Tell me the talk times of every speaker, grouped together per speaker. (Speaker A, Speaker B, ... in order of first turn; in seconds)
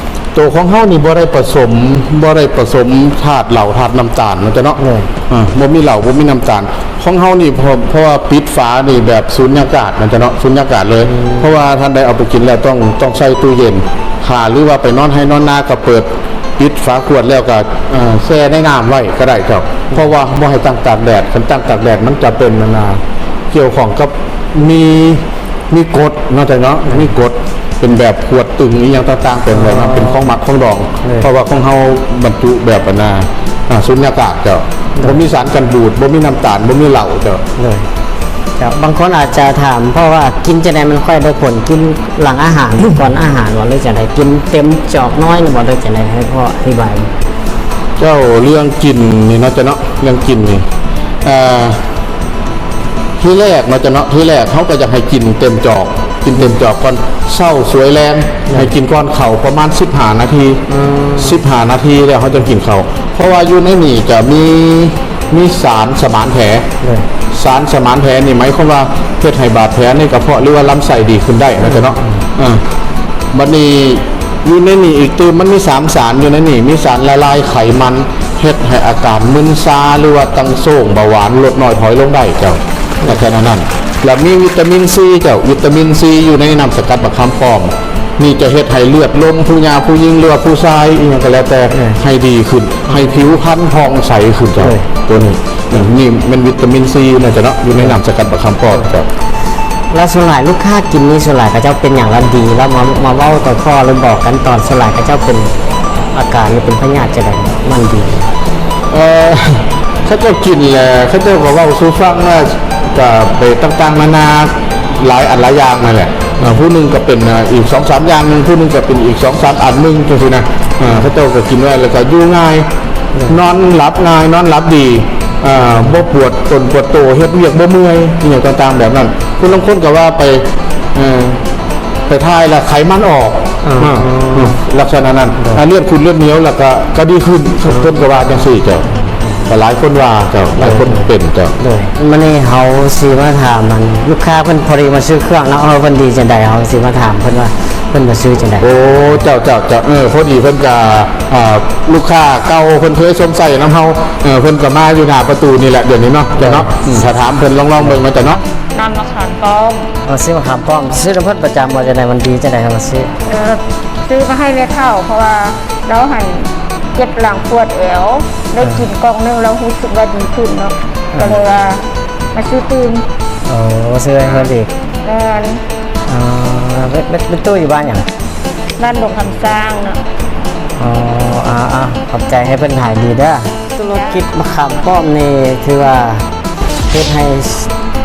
Speaker A: 0.3-37.4, 48.0-50.7, 51.2-51.8, 53.2-66.7, 67.3-72.6, 73.3-99.1, 108.9-122.7, 123.2-131.4, 132.1-138.9, 139.4-141.6, 148.6-158.4
Speaker B: 4.8-5.1, 11.0-11.4, 29.5-30.2, 31.0-31.3, 37.6-37.9, 38.6-47.1, 60.7-61.4, 66.8-67.1, 71.6-72.2, 91.7-92.0, 94.6-94.8, 99.9-105.6, 106.1-108.3, 133.6-134.6, 137.7-137.9, 138.9-139.4, 140.6-149.2, 156.4-156.7, 160.0-163.2, 171.1-171.4, 173.4-174.7, 176.1-178.1, 180.7-186.3, 186.9-187.7
Speaker C: 158.7-159.9, 163.2-173.1, 175.0-175.6, 178.8-180.0